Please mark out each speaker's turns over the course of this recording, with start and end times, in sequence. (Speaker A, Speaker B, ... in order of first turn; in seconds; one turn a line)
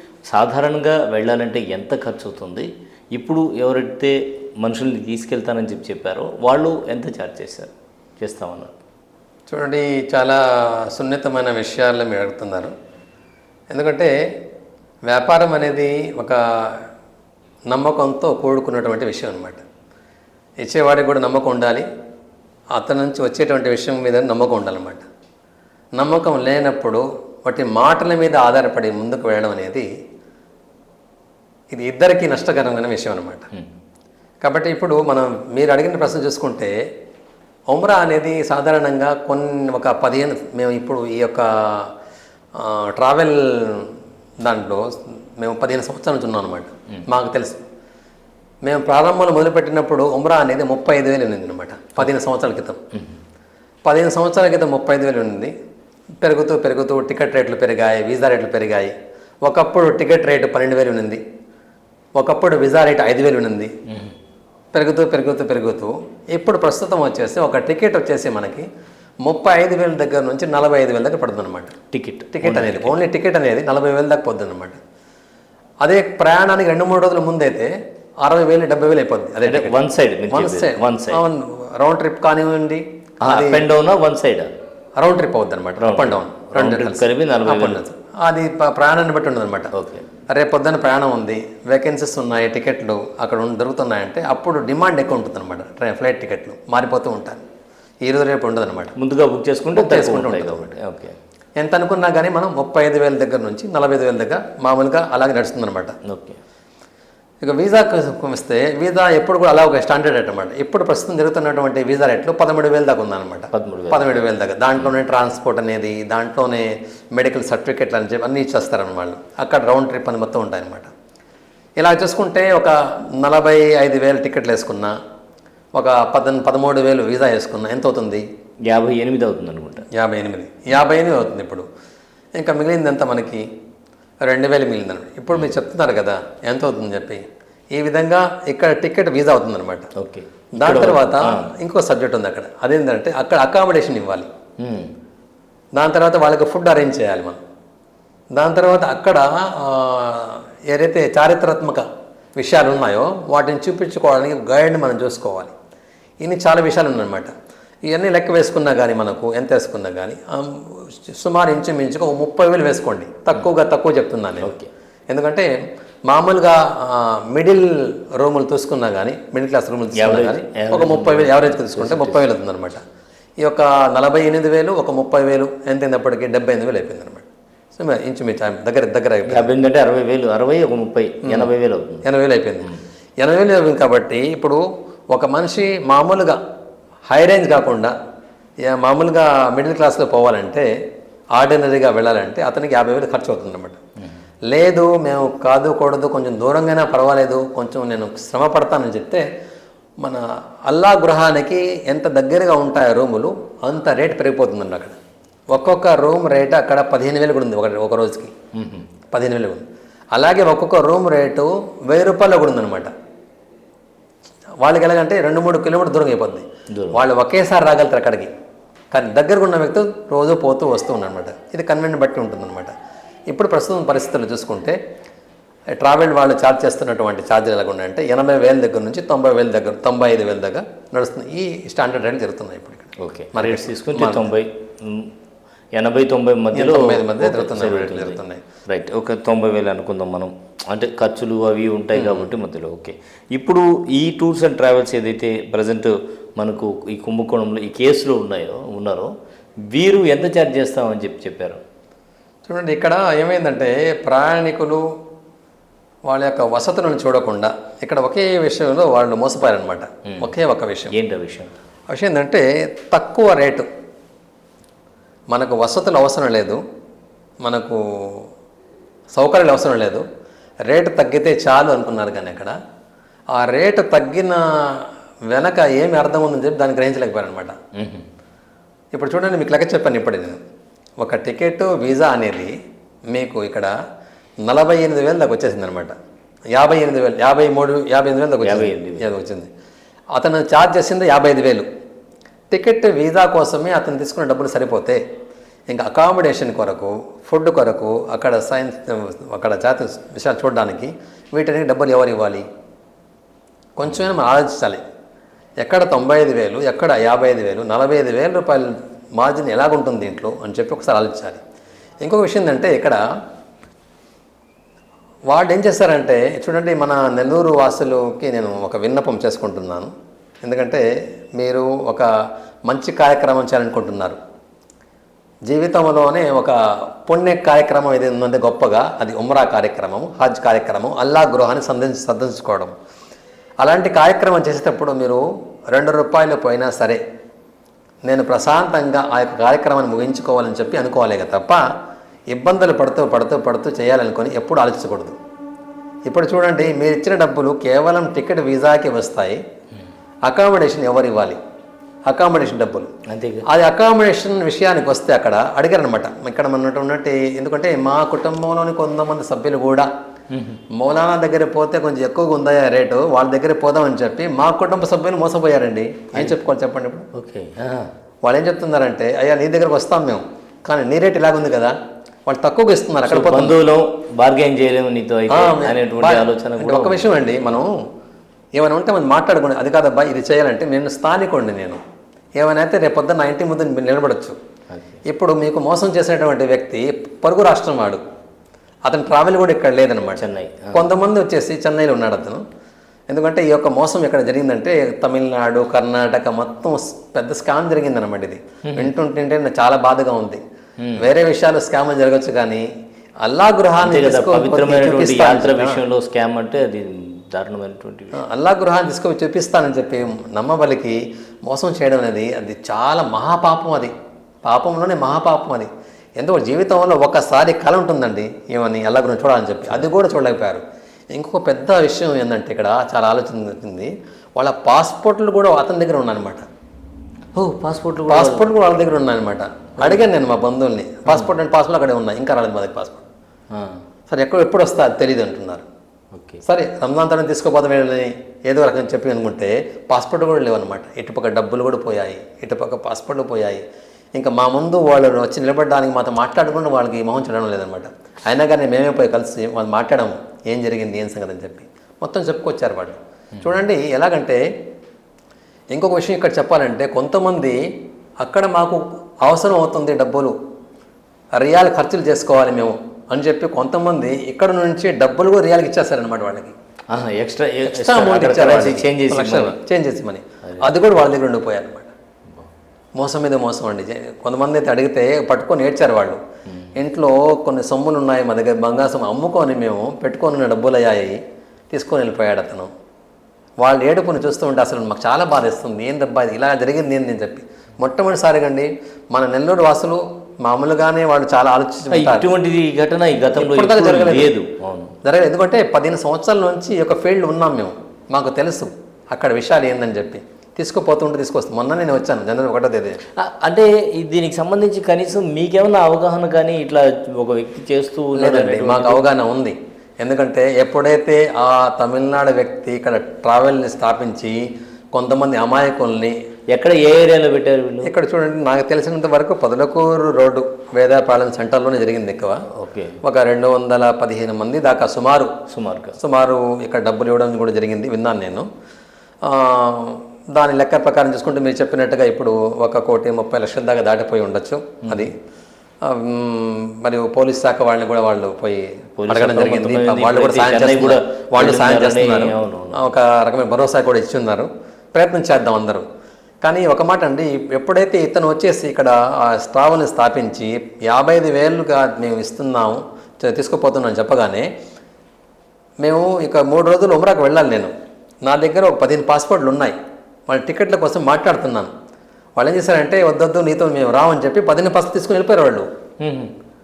Speaker A: 0.3-8.7
Speaker B: 9.5-12.7
Speaker B: 13.7-14.1
Speaker B: 15.1-16.9
Speaker B: 17.7-19.6
Speaker B: 20.6-21.9
Speaker B: 22.8-25.1
Speaker B: 26.0-29.9
Speaker B: 31.7-33.5
Speaker B: 34.4-36.7
Speaker B: 37.7-41.9
Speaker B: 42.6-47.6
Speaker B: 48.6-52.8
Speaker B: 53.9-55.5
Speaker B: 56.2-58.9
Speaker B: 59.4-61.2
Speaker B: 62.2-63.7
Speaker B: 64.7-68.7
Speaker B: 69.2-71.8
Speaker A: 71.9-73.0
Speaker B: 72.3-74.8
Speaker B: 75.8-79.8
Speaker A: 79.4-81.2
Speaker B: 80.3-83.6
Speaker A: 83.2-84.5
Speaker B: 85.0-89.7
Speaker A: 85.8-87.8
Speaker A: 89.7-90.0
Speaker B: 90.3-97.4
Speaker B: 98.0-98.9
Speaker A: 99.0-101.1
Speaker B: 99.7-100.7
Speaker B: 101.6-106.0
Speaker A: 106.0-106.4
Speaker B: 107.4-120.9
Speaker A: 113.5-114.2
Speaker B: 121.8-124.9
Speaker B: 125.8-128.2
Speaker A: 128.7-129.8
Speaker B: 129.9-131.7
Speaker B: 132.4-133.4
Speaker B: 134.2-139.9
Speaker A: 140.0-141.5
Speaker B: 140.6-144.3
Speaker A: 144.6-144.9
Speaker B: 145.8-147.4
Speaker B: 148.3-151.8
Speaker B: 152.4-155.5
Speaker B: 156.2-157.3
Speaker B: 157.8-164.6
Speaker A: 164.4-164.7
Speaker B: 165.1-165.5
Speaker B: 166.1-172.8
Speaker A: 170.0-172.2
Speaker B: 173.4-179.5
Speaker A: 179.3-182.0
Speaker B: 181.2-181.5
Speaker B: 182.0-186.4
Speaker B: 187.1-187.9
Speaker B: 188.6-190.7
Speaker B: 191.3-193.8
Speaker B: 194.5-199.2
Speaker B: 200.0-205.0
Speaker B: 205.5-208.3
Speaker A: 208.6-208.9
Speaker B: 209.1-212.9
Speaker B: 214.6-218.3
Speaker A: 216.7-217.0
Speaker B: 218.9-222.7
Speaker B: 223.3-224.8
Speaker B: 225.8-234.3
Speaker A: 233.0-235.1
Speaker A: 235.8-249.1
Speaker B: 236.5-238.4
Speaker B: 241.9-242.3
Speaker A: 249.7-251.6
Speaker B: 252.5-254.8
Speaker B: 256.1-260.9
Speaker A: 260.9-261.5
Speaker B: 261.9-263.7
Speaker B: 265.3-266.6
Speaker B: 267.4-268.3
Speaker B: 269.1-270.0
Speaker B: 270.7-272.5
Speaker B: 273.3-277.6
Speaker A: 277.8-278.1
Speaker B: 278.9-280.4
Speaker B: 281.0-282.5
Speaker B: 283.1-283.7
Speaker B: 284.4-285.9
Speaker B: 286.5-289.5
Speaker A: 288.4-289.1
Speaker B: 290.1-291.7
Speaker B: 292.5-295.0
Speaker B: 295.7-302.4
Speaker B: 303.8-304.8
Speaker B: 305.6-311.4
Speaker B: 312.0-313.0
Speaker B: 315.3-319.9
Speaker B: 320.4-320.8
Speaker B: 321.4-322.1
Speaker B: 322.7-324.2
Speaker B: 325.5-332.7
Speaker B: 333.6-337.0
Speaker B: 338.1-341.6
Speaker B: 342.3-345.2
Speaker B: 346.1-349.4
Speaker B: 350.3-351.4
Speaker B: 352.1-352.9
Speaker A: 353.1-353.5
Speaker B: 353.5-359.9
Speaker A: 360.3-360.6
Speaker B: 360.7-367.1
Speaker A: 367.1-367.9
Speaker B: 368.2-371.8
Speaker B: 372.3-373.6
Speaker A: 373.1-377.4
Speaker B: 375.3-377.7
Speaker B: 378.6-381.8
Speaker B: 382.4-384.4
Speaker A: 384.7-385.0
Speaker B: 385.1-388.0
Speaker B: 388.9-392.4
Speaker A: 390.2-390.8
Speaker B: 393.1-400.4
Speaker A: 398.7-398.9
Speaker B: 401.0-402.7
Speaker B: 403.2-405.8
Speaker A: 403.8-408.2
Speaker B: 408.2-413.9
Speaker B: 414.4-426.4
Speaker A: 427.4-428.5
Speaker B: 428.1-433.1
Speaker A: 433.5-433.8
Speaker B: 434.1-435.7
Speaker A: 436.1-436.4
Speaker B: 436.4-443.6
Speaker B: 444.1-454.4
Speaker B: 455.7-457.6
Speaker B: 458.2-460.4
Speaker B: 461.4-466.5
Speaker A: 466.9-469.6
Speaker B: 467.7-471.9
Speaker B: 473.0-476.2
Speaker B: 476.8-481.2
Speaker B: 481.7-482.7
Speaker B: 483.6-492.3
Speaker A: 491.9-494.9
Speaker B: 493.3-494.3
Speaker B: 495.0-503.0
Speaker A: 503.2-509.0
Speaker B: 508.2-516.2
Speaker A: 516.5-517.9
Speaker B: 517.8-522.4
Speaker A: 522.6-523.0
Speaker B: 523.0-525.3
Speaker A: 525.5-526.0
Speaker B: 526.0-528.5
Speaker B: 529.2-535.1
Speaker B: 535.8-545.9
Speaker A: 539.0-542.8
Speaker B: 546.4-554.5
Speaker B: 555.8-557.7
Speaker B: 558.2-559.8
Speaker B: 560.3-561.7
Speaker B: 562.4-565.7
Speaker A: 566.0-566.3